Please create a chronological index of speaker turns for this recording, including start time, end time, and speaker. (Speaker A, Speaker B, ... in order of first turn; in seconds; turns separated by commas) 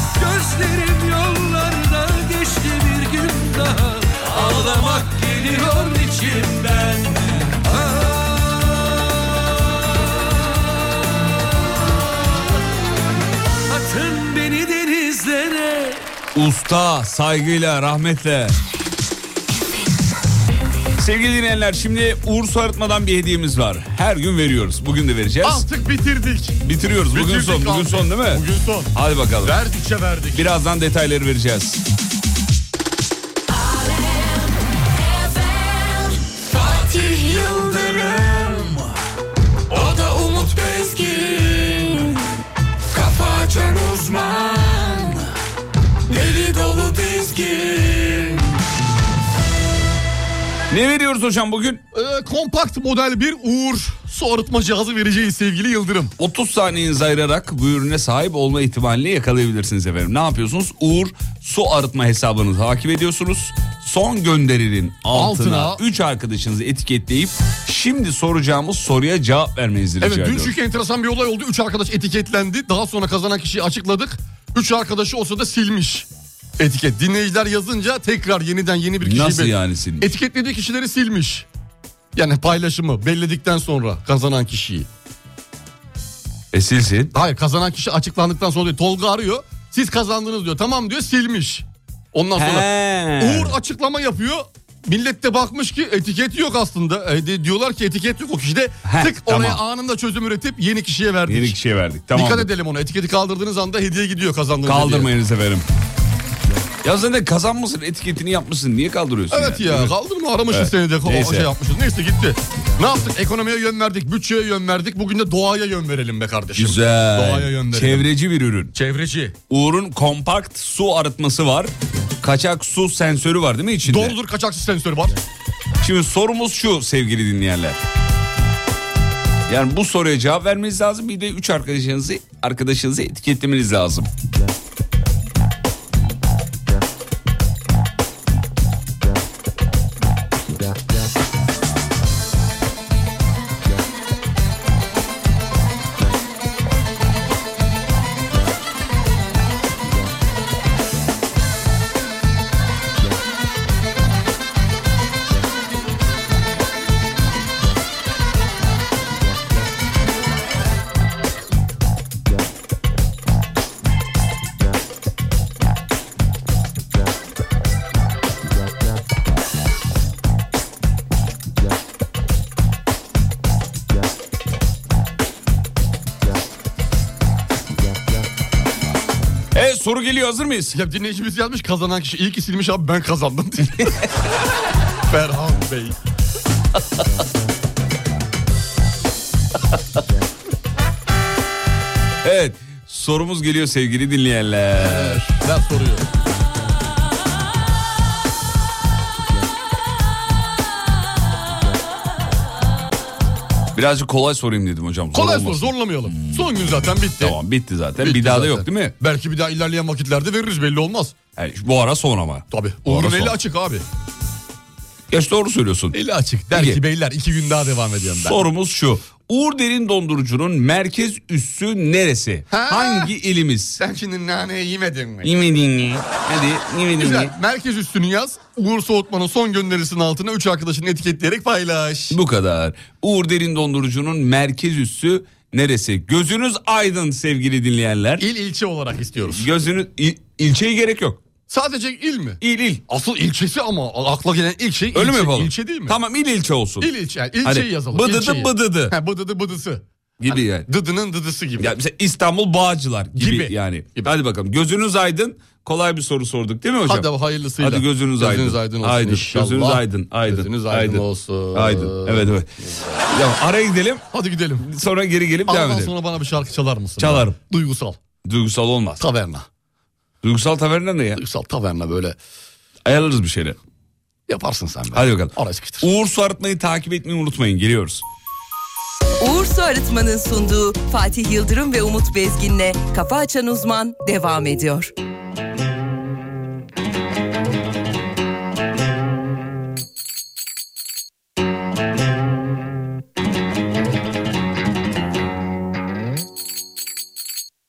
Speaker A: 0.1-9.4, Speaker A: 13.7-16.1, Speaker B: 16.4-18.6, Speaker B: 21.0-25.6, Speaker C: 25.4-30.5, Speaker B: 26.6-29.6, Speaker B: 30.3-31.8, Speaker D: 33.8-38.7, Speaker B: 36.9-37.9, Speaker B: 39.8-41.8, Speaker D: 39.9-41.4, Speaker B: 42.9-44.8, Speaker B: 46.1-48.3, Speaker B: 50.7-51.8, Speaker C: 51.9-56.1, Speaker B: 56.2-70.5, Speaker C: 65.1-65.8, Speaker C: 70.0-76.1, Speaker C: 76.6-81.5, Speaker B: 79.0-80.1, Speaker C: 82.2-84.9, Speaker B: 86.5-87.1, Speaker C: 87.1-101.6, Speaker B: 92.4-93.5, Speaker B: 98.8-99.6, Speaker B: 101.3-102.5, Speaker C: 102.1-105.1, Speaker B: 104.7-105.7, Speaker B: 106.8-109.9, Speaker C: 109.3-118.1, Speaker B: 110.5-111.5, Speaker B: 116.6-118.7, Speaker C: 118.7-119.4, Speaker B: 119.5-124.2, Speaker C: 123.8-125.2, Speaker B: 125.8-127.8, Speaker B: 129.5-134.1, Speaker B: 179.5-180.8, Speaker C: 180.7-184.0, Speaker C: 185.1-186.0, Speaker B: 192.2-195.2, Speaker C: 194.8-196.1, Speaker B: 203.7-206.5, Speaker C: 205.1-207.4, Speaker B: 207.2-208.9, Speaker C: 208.0-211.2, Speaker B: 211.4-213.4, Speaker C: 212.5-213.8, Speaker B: 215.1-216.0, Speaker C: 215.9-218.4, Speaker B: 216.5-216.8, Speaker B: 218.1-223.8, Speaker C: 222.5-223.1, Speaker C: 223.8-225.3, Speaker B: 225.2-227.3, Speaker C: 227.0-232.2, Speaker B: 232.1-238.2, Speaker C: 238.2-239.5, Speaker B: 239.3-241.2, Speaker C: 241.5-246.0, Speaker B: 242.4-242.8, Speaker B: 244.9-246.9, Speaker C: 246.8-251.7, Speaker B: 247.4-248.9, Speaker B: 250.2-250.7, Speaker B: 251.6-257.1, Speaker C: 253.2-254.1, Speaker C: 256.9-263.0, Speaker B: 257.6-262.5, Speaker B: 263.1-264.0, Speaker C: 264.1-264.7, Speaker B: 264.6-265.9, Speaker C: 265.5-268.0, Speaker B: 267.0-267.4, Speaker B: 268.2-269.0, Speaker C: 269.0-269.5, Speaker B: 270.2-271.2, Speaker C: 271.1-272.2, Speaker B: 272.9-273.6, Speaker C: 274.3-275.9, Speaker B: 274.9-278.0, Speaker E: 279.2-284.9